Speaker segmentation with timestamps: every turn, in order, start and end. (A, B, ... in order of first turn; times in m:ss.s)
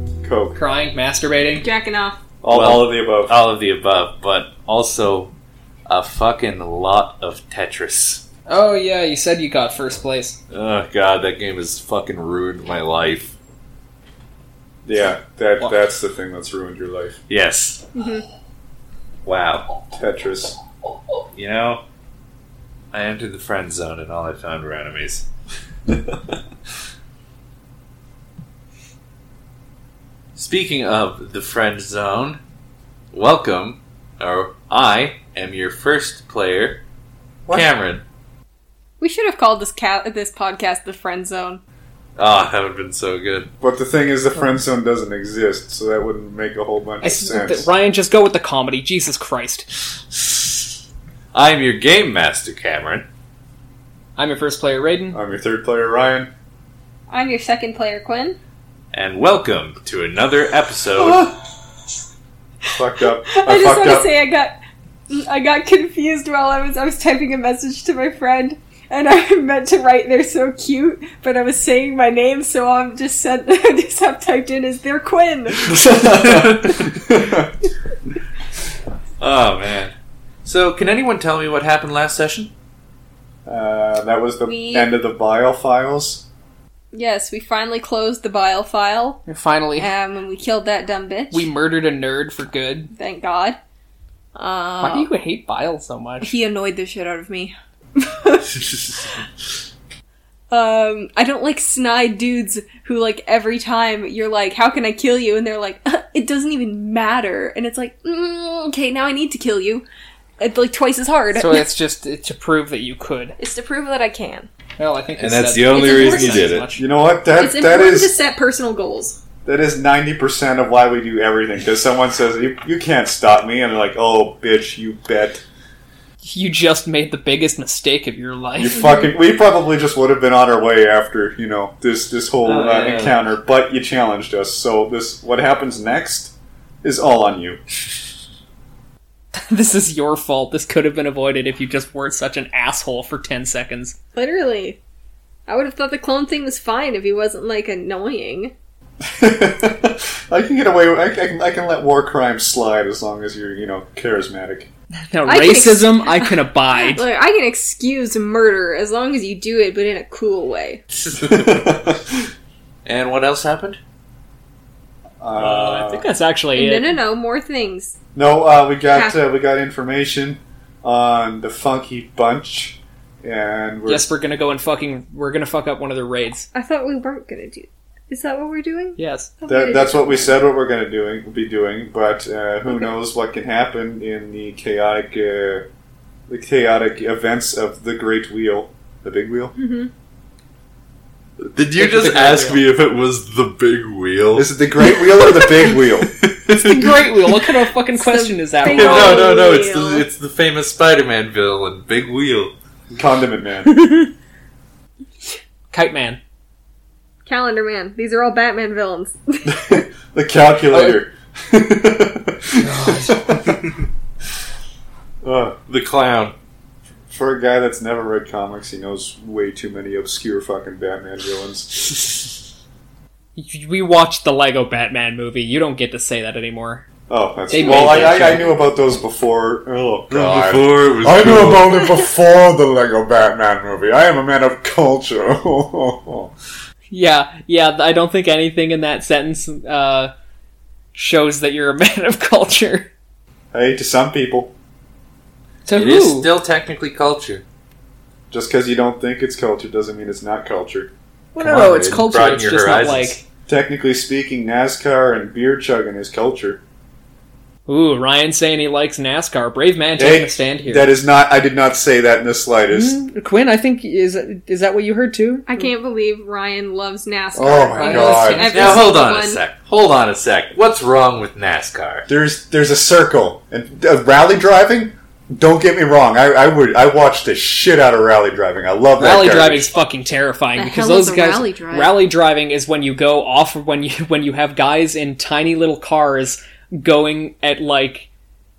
0:00.2-0:00.6 A
0:00.6-0:01.7 B
0:01.6-0:02.2 C
0:02.4-0:03.4 A
0:02.5-0:05.3 D
0:05.9-0:08.2 D
0:08.5-0:10.4 B
0:10.5-0:13.3 D
0:14.8-0:17.2 A
0:17.3-0:17.9 D
0:18.0-0:18.2 C
0:19.2-0:19.7 D
0:19.9-0:20.6 A
0:21.4-0:21.8 D
0:22.9-0:25.3 D
0:30.4-0:32.4 D
0:33.1-0:36.8 D
0:37.5-0:38.0 D
0:39.0-0:41.6 C
0:42.2-0:43.5 D
0:43.6-0:47.7 A
0:47.0-0:49.7 B
0:50.1-0:50.5 D
0:51.3-0:53.1 D
0:54.2-0:55.2 B
0:55.1-0:56.3 A
0:57.1-0:58.4 C
0:58.9-1:01.3 D
1:01.0-1:01.3 A
1:02.7-1:04.1 A
1:03.3-1:04.6 C
1:05.1-1:15.8 C
1:15.7-1:17.5 A
1:16.2-1:16.8 D
1:19.2-1:22.5 D
1:23.4-1:26.2 A
1:24.4-1:24.9 C
1:26.9-1:29.2 C
1:29.3-1:29.9 B
1:29.8-1:31.5 C
1:31.3-1:32.9 B
1:32.9-1:33.6 C
1:34.4-1:35.1 C
1:34.8-1:36.3 B
1:36.2-1:38.5 C
1:38.6-1:39.0 D
1:40.5-1:49.8 C
1:50.4-1:51.7 C
1:51.3-1:53.4 B
1:53.4-1:54.5 C
1:54.8-1:56.8 B
1:55.2-1:56.7 D
1:55.7-1:56.6 C
1:56.8-1:58.1 A
1:57.4-1:59.2 C
1:59.4-2:05.4 A
2:06.2-2:08.8 B
2:08.6-2:17.6 A
2:08.8-2:09.0 C
2:12.4-2:13.2 D
2:19.3-2:24.0 B
2:24.2-2:24.8 C
2:25.5-2:28.5 C
2:29.1-2:34.7 A
2:35.1-2:37.0 B
2:35.2-2:40.8 C
2:40.9-2:41.9 D
2:41.2-2:42.2 A
2:42.8-2:43.8 D
2:45.2-2:46.0 A
2:45.4-2:47.0 B
2:46.6-2:48.0 C
2:48.2-2:54.1 A
2:48.9-2:49.2 C
2:53.9-2:56.5 B
2:56.5-3:00.4 C
2:59.0-2:59.3 B
2:59.5-3:05.7 A
3:06.3-3:09.6 A
3:09.6-3:09.9 C
3:11.4-3:17.1 D
3:11.8-3:12.6 B
3:14.3-3:16.1 A
3:16.5-3:19.3 B
3:18.0-3:20.0 C
3:18.7-3:22.5 D
3:23.0-3:23.8 A
3:25.7-3:26.2 B
3:27.2-3:29.5 C
3:29.4-3:33.8 A
3:32.6-3:33.3 B
3:35.2-3:35.6 A
3:35.7-3:36.3 D
3:37.1-3:42.1 A
3:43.4-3:46.8 B
3:47.1-3:56.3 A
3:47.5-3:48.5 B
3:50.1-3:51.8 D
3:56.9-4:00.1 B
4:00.9-4:02.9 B
4:03.5-4:04.5 A
4:05.7-4:06.3 B
4:05.7-4:07.4 D
4:08.3-4:10.9 A
4:11.3-4:13.2 B
4:11.4-4:13.2 D
4:13.5-4:16.6 A
4:17.7-4:20.9 B
4:20.0-4:23.0 A
4:22.7-4:25.6 B
4:25.5-4:29.4 C
4:27.4-4:28.5 A
4:27.8-4:28.9 B
4:28.5-4:32.0 D
4:32.1-4:39.6 A
4:39.0-4:48.1 B
4:40.6-4:42.0 C